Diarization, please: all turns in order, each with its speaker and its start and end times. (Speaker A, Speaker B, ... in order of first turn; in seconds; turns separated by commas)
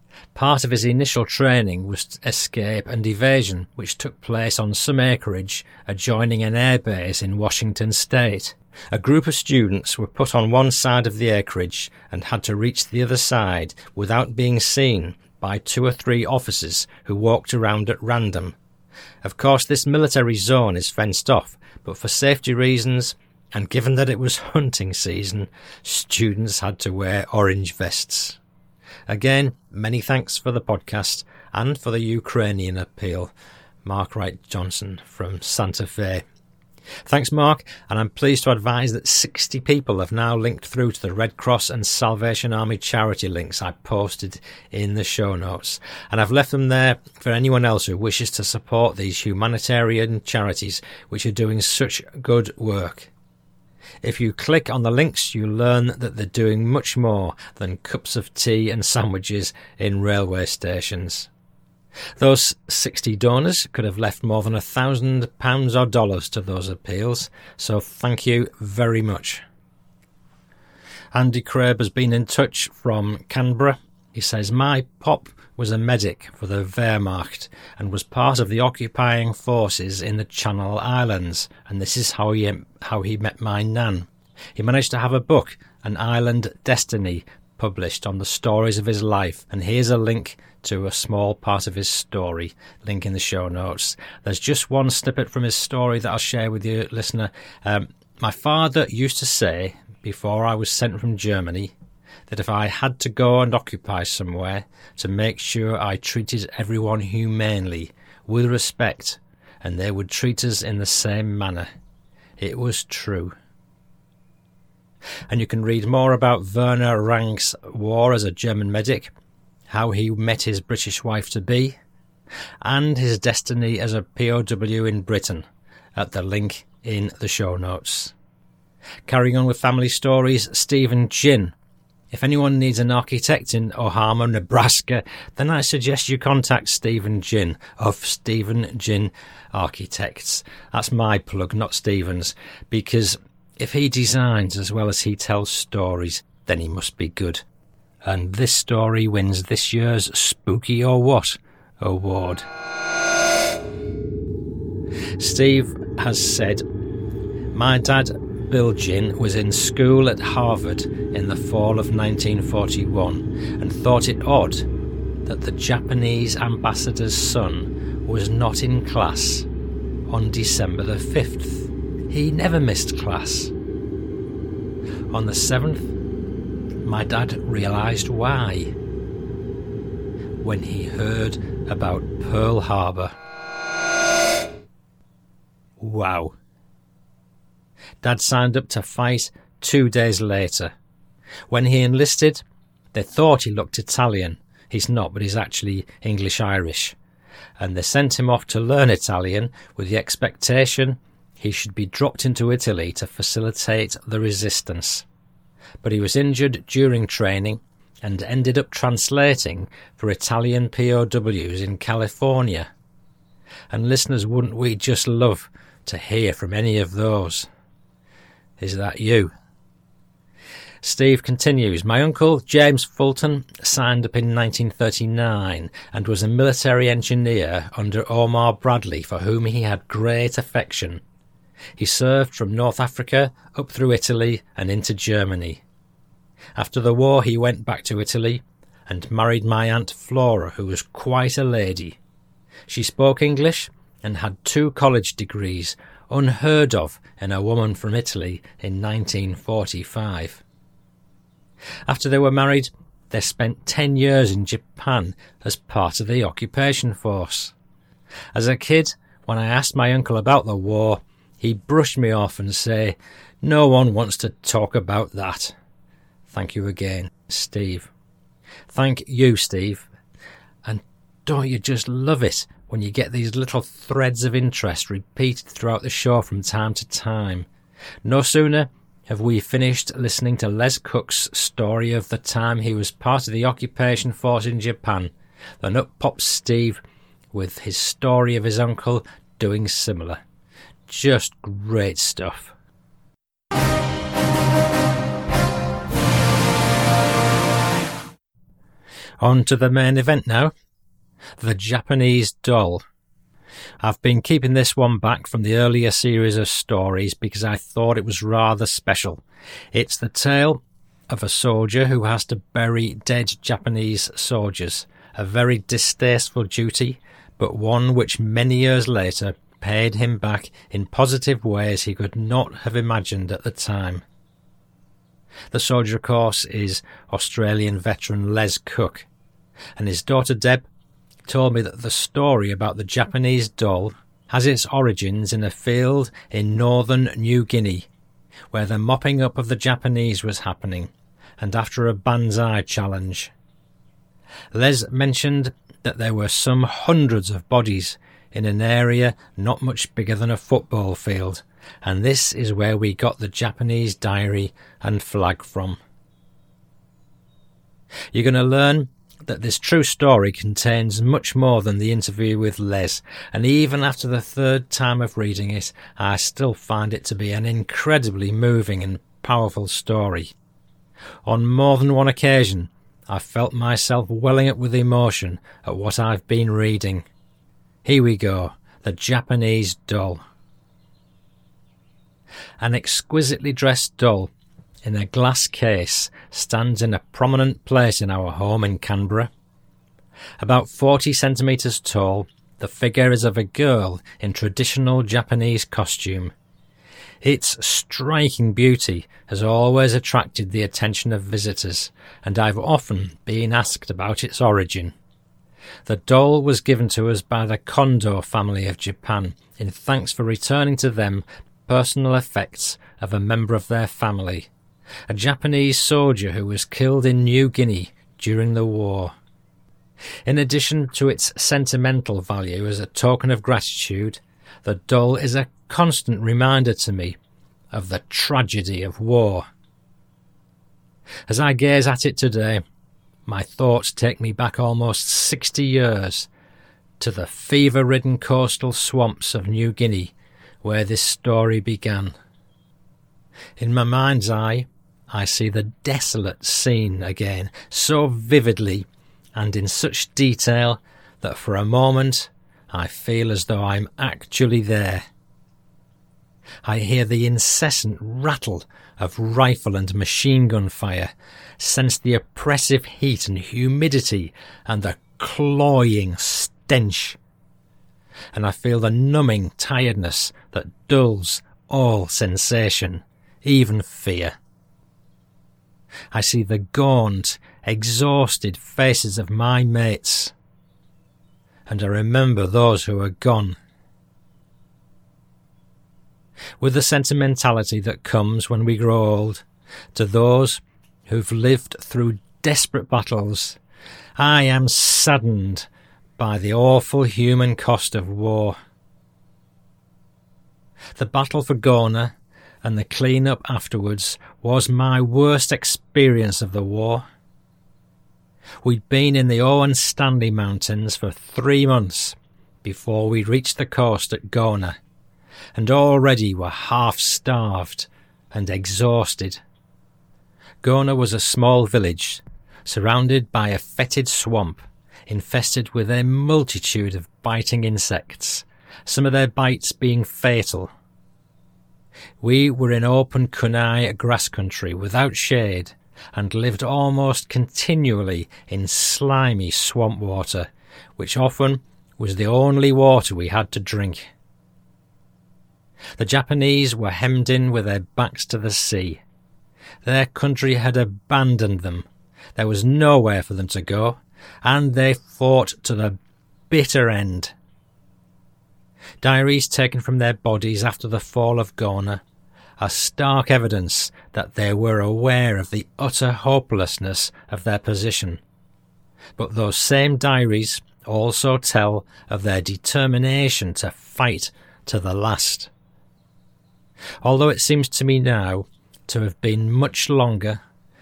Speaker A: 0.3-18.6, Speaker A: 19.2-28.4, Speaker A: 29.1-33.3, Speaker A: 33.8-36.2, Speaker A: 37.1-53.1, Speaker A: 54.0-61.3, Speaker A: 62.2-69.4, Speaker A: 71.1-101.7, Speaker A: 102.3-111.7, Speaker A: 112.4-113.4, Speaker A: 115.3-119.1, Speaker A: 119.7-121.8, Speaker A: 122.6-128.1, Speaker A: 129.1-131.5, Speaker A: 132.1-147.4, Speaker A: 148.0-152.5, Speaker A: 155.2-156.7, Speaker A: 157.5-164.7, Speaker A: 165.3-169.5, Speaker A: 170.1-173.5, Speaker A: 175.1-175.9, Speaker A: 176.8-178.7, Speaker A: 180.4-183.1, Speaker A: 185.8-186.3, Speaker A: 188.0-190.7, Speaker A: 191.5-192.4, Speaker A: 192.9-197.0, Speaker A: 197.6-205.1, Speaker A: 205.8-212.7, Speaker A: 213.7-217.5, Speaker A: 218.6-219.3, Speaker A: 220.8-231.0, Speaker A: 231.8-235.6, Speaker A: 236.6-242.0, Speaker A: 242.7-250.4, Speaker A: 251.9-257.5, Speaker A: 258.3-265.5, Speaker A: 266.3-267.9, Speaker A: 268.7-269.9, Speaker A: 270.6-277.5, Speaker A: 278.1-286.8, Speaker A: 287.3-290.2, Speaker A: 290.9-292.5, Speaker A: 299.2-300.5, Speaker A: 301.4-302.8, Speaker A: 303.8-324.0, Speaker A: 325.5-329.1, Speaker A: 329.8-330.7, Speaker A: 331.3-337.9, Speaker A: 338.5-343.3, Speaker A: 344.5-355.8, Speaker A: 358.1-370.3, Speaker A: 371.2-377.1, Speaker A: 377.9-380.2, Speaker A: 382.6-384.3, Speaker A: 384.8-389.3, Speaker A: 390.4-396.3, Speaker A: 397.2-404.9, Speaker A: 405.9-414.5, Speaker A: 415.1-419.1, Speaker A: 420.3-427.2, Speaker A: 427.7-429.5, Speaker A: 431.3-432.6, Speaker A: 433.3-436.3, Speaker A: 437.0-442.1, Speaker A: 443.6-455.1, Speaker A: 456.6-467.2, Speaker A: 468.3-474.4, Speaker A: 476.1-480.3, Speaker A: 481.7-483.6, Speaker A: 486.6-493.6, Speaker A: 494.2-498.6, Speaker A: 501.0-507.1, Speaker A: 508.6-514.8, Speaker A: 515.6-519.4, Speaker A: 520.6-530.7, Speaker A: 532.2-544.1, Speaker A: 546.0-549.0, Speaker A: 549.8-556.0, Speaker A: 556.5-557.3, Speaker A: 559.0-562.0, Speaker A: 562.6-568.2, Speaker A: 569.2-575.5, Speaker A: 577.0-580.4